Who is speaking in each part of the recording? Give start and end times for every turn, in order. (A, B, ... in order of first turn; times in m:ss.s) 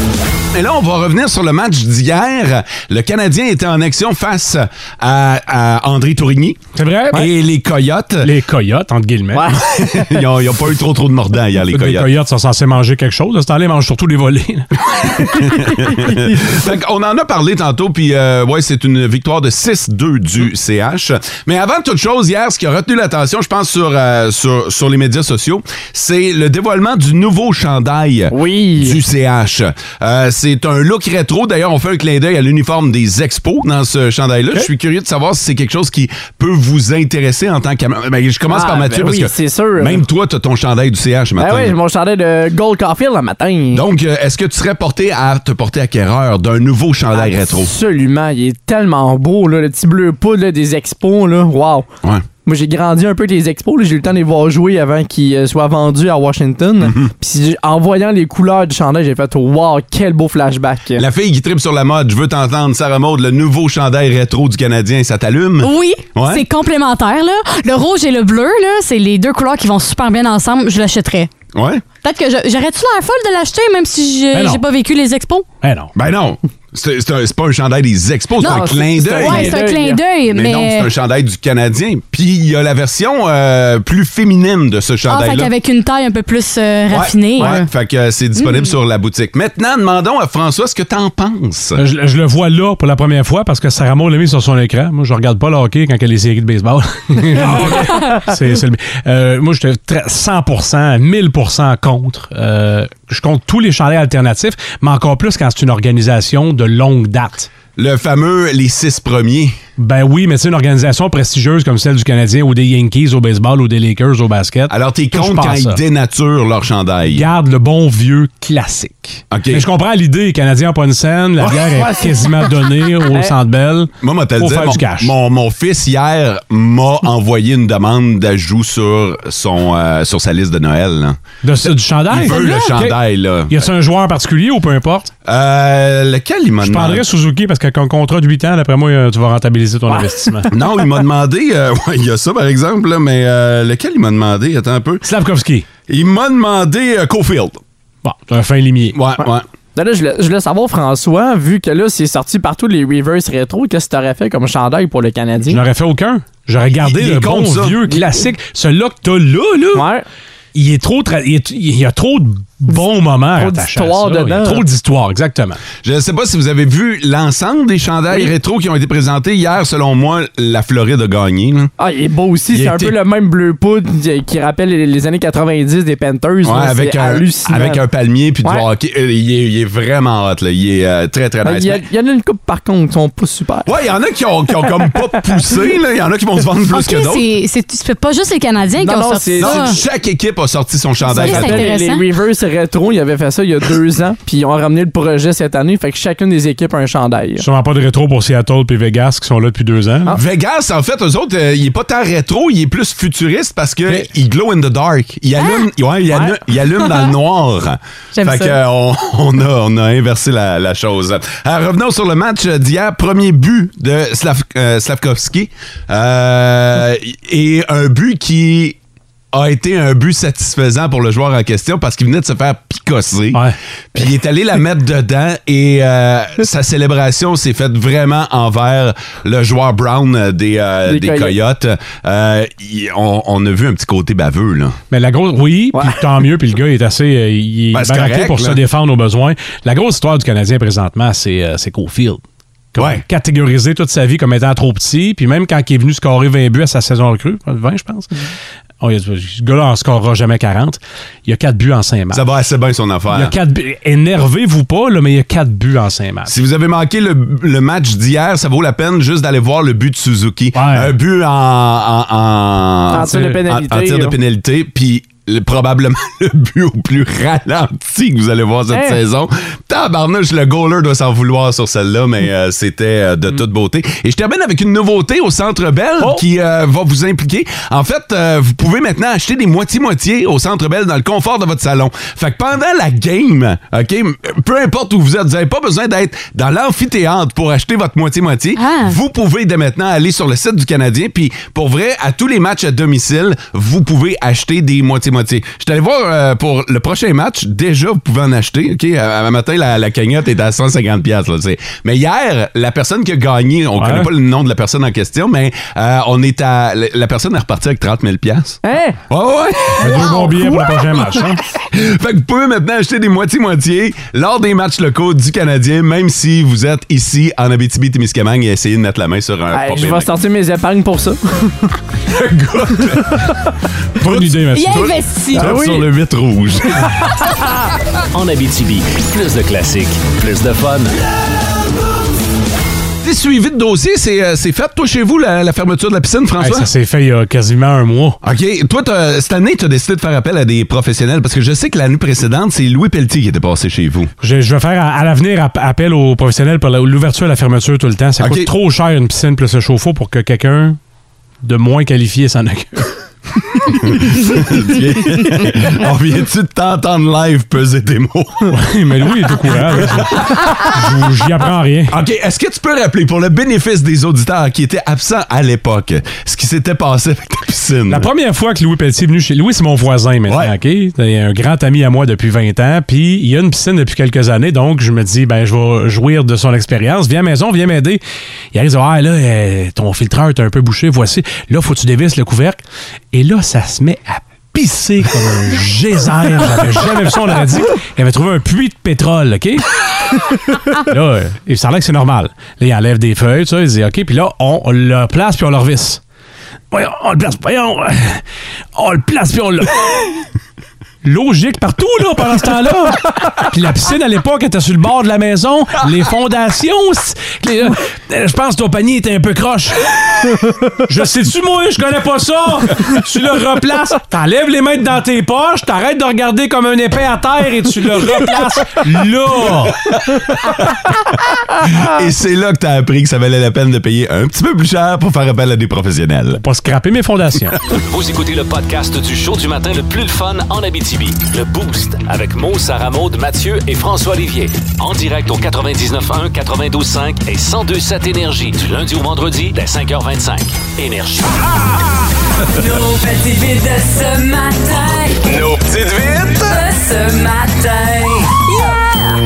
0:00.5-0:06.6 A
0:06.7-0:07.3 B
0:07.1-0:08.3 A
0:08.2-0:09.5 B
0:09.3-0:10.0 C
0:09.6-0:12.1 A
0:11.7-0:14.7 B
0:15.3-0:41.8 A
0:28.3-0:29.0 C
0:38.5-0:40.0 C
0:41.4-0:43.8 C
0:43.7-0:47.7 A
0:47.1-0:51.9 C
0:52.4-1:01.0 C
0:56.8-0:57.1 A
1:01.0-1:06.4 A
1:05.6-1:11.3 D
1:11.5-1:11.8 A
1:12.0-1:15.4 D
1:14.3-1:14.6 B
1:15.6-1:15.9 B
1:15.9-1:19.6 A
1:18.4-1:20.0 C
1:18.4-1:20.9 D
1:20.3-1:25.5 A
1:25.1-1:27.7 D
1:26.9-1:31.8 A
1:28.4-1:28.6 D
1:31.8-1:47.5 B
1:47.7-1:49.5 A
1:49.8-1:55.8 B
1:54.7-1:57.3 A
1:57.1-2:05.1 B
1:59.3-1:59.6 A
2:01.7-2:02.5 C
2:03.1-2:03.3 C
2:04.0-2:13.6 A
2:11.4-2:15.1 B
2:15.2-2:17.0 A
2:16.6-2:20.5 B
2:19.9-2:20.2 C
2:20.5-2:25.0 A
2:25.0-2:25.7 B
2:25.9-2:27.6 A
2:28.0-2:29.0 B
2:28.9-2:29.4 A
2:29.7-2:35.6 C
2:35.5-2:39.9 B
2:36.8-2:37.8 A
2:39.7-2:40.0 C
2:40.5-2:45.6 B
2:42.7-2:44.6 C
2:45.8-2:51.7 A
2:51.8-2:57.8 C
2:52.5-2:53.0 A
2:56.4-3:01.8 A
3:01.4-3:03.7 C
3:03.6-3:07.2 A
3:06.7-3:09.8 D
3:08.8-3:09.8 C
3:09.4-3:11.7 A
3:11.0-3:12.0 D
3:11.1-3:17.4 C
3:17.4-3:20.1 B
3:20.1-3:38.8 A
3:28.1-3:28.6 D
3:39.3-3:54.8 A
3:50.8-3:51.4 C
3:54.9-4:02.2 B
3:55.7-3:56.0 C
3:57.7-3:58.6 A
4:02.7-4:08.2 B
4:02.8-4:03.0 A
4:08.8-4:12.3 B
4:12.1-4:13.3 A
4:13.1-4:16.3 B
4:16.3-5:10.9 A
4:20.5-4:20.9 B
4:22.9-4:24.2 C
4:28.7-4:29.0 C
4:48.6-4:49.0 D
5:03.8-5:04.1 B
5:08.6-5:09.0 C
5:09.8-5:11.4 B
5:11.6-5:20.1 A
5:19.5-5:21.6 C
5:22.1-5:23.3 A
5:24.0-5:27.2 A
5:24.0-5:24.9 B
5:24.5-5:25.4 D
5:25.4-5:25.9 C
5:28.1-5:30.9 E
5:33.0-5:36.7 A
5:36.4-5:38.2 B
5:38.2-5:44.1 A
5:44.2-5:50.8 B
5:48.2-5:48.5 A
5:51.4-5:52.9 B
5:53.8-5:58.5 A
5:58.5-6:01.9 B
5:59.5-6:00.8 A
6:01.9-6:08.1 A
6:07.9-6:18.0 B
6:10.3-6:10.5 A
6:18.5-6:22.6 B
6:23.1-6:29.7 B
6:30.7-6:36.0 B
6:36.7-6:38.2 B
6:38.7-6:40.2 B
6:41.0-6:59.8 B
7:00.1-7:00.8 A
7:01.6-7:06.4 A
7:06.4-7:07.6 B
7:07.7-7:21.7 E
7:22.8-7:24.6 F
7:25.2-7:26.6 E
7:26.8-7:27.6 F